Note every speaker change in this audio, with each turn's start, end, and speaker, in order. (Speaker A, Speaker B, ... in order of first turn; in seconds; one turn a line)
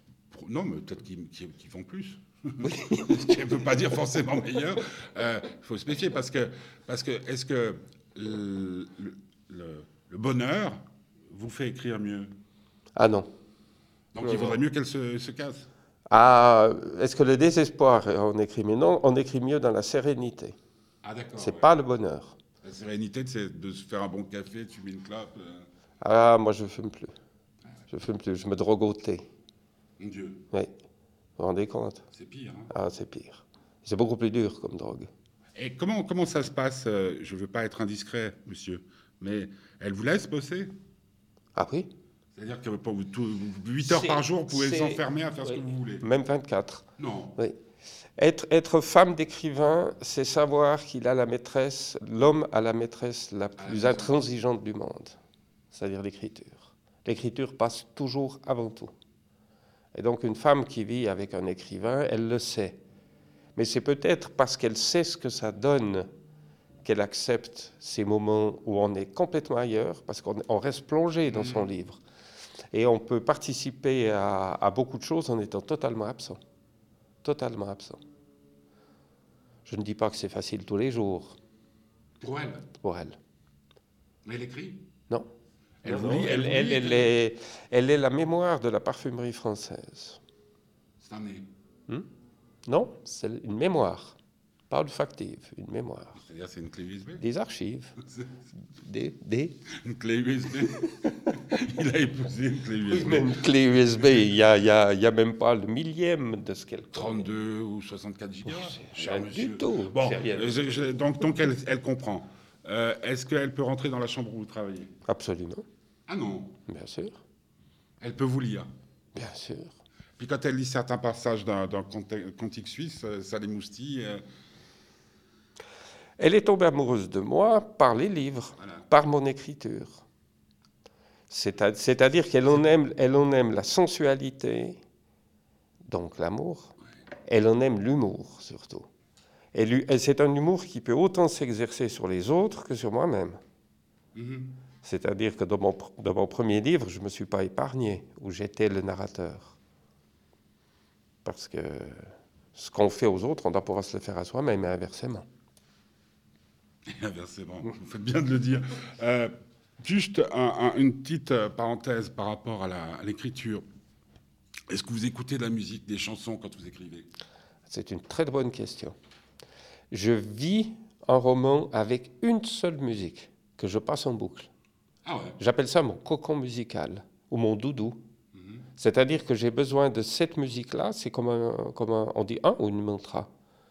Speaker A: 0.3-12.3
Speaker B: 2.6-3.8
Speaker B: 13.0-13.3
Speaker A: 14.1-15.7
Speaker B: 14.2-14.6
Speaker B: 16.1-20.6
Speaker A: 21.0-21.8
Speaker B: 21.4-22.4
Speaker A: 22.6-25.7
Speaker B: 26.0-27.1
Speaker B: 27.9-29.2
Speaker A: 30.0-30.4
Speaker B: 31.4-32.0
Speaker A: 32.1-32.7
Speaker B: 32.7-35.1
Speaker A: 35.5-40.7
Speaker B: 41.5-41.9
Speaker A: 42.4-46.0
Speaker B: 43.9-47.6
Speaker A: 47.0-47.4
Speaker B: 48.2-55.2
Speaker A: 53.6-54.2
Speaker B: 55.7-58.9
Speaker B: 59.9-62.8
Speaker B: 63.6-66.1
Speaker B: 66.8-72.0
Speaker A: 71.3-71.7
Speaker B: 72.7-76.4
Speaker B: 77.2-78.0
Speaker B: 79.7-81.4
Speaker A: 82.2-82.6
Speaker B: 82.8-83.2
Speaker A: 84.2-84.8
Speaker A: 85.8-87.1
Speaker B: 85.8-90.2
Speaker A: 91.0-91.5
Speaker B: 92.7-94.2
Speaker B: 94.7-96.2
Speaker A: 96.2-97.2
Speaker B: 97.2-98.0
Speaker B: 98.7-99.6
Speaker A: 99.7-103.4
Speaker B: 102.9-107.3
Speaker A: 106.9-114.9
Speaker B: 108.5-110.9
Speaker B: 115.1-115.6
Speaker A: 116.1-116.6
Speaker B: 116.7-117.2
Speaker A: 118.0-118.7
Speaker B: 119.2-119.8
Speaker A: 120.2-124.2
Speaker B: 126.2-130.0
Speaker B: 131.3-134.8
Speaker B: 135.9-136.7
Speaker B: 137.2-138.9
Speaker B: 139.5-143.4
Speaker A: 144.2-144.5
Speaker B: 144.8-149.6
Speaker B: 151.2-155.3
Speaker A: 156.9-163.7
Speaker A: 164.7-167.1
Speaker B: 167.7-168.9
Speaker B: 169.9-174.5
Speaker A: 175.1-175.4
Speaker B: 175.4-178.0
Speaker A: 178.3-178.6
Speaker B: 178.8-183.3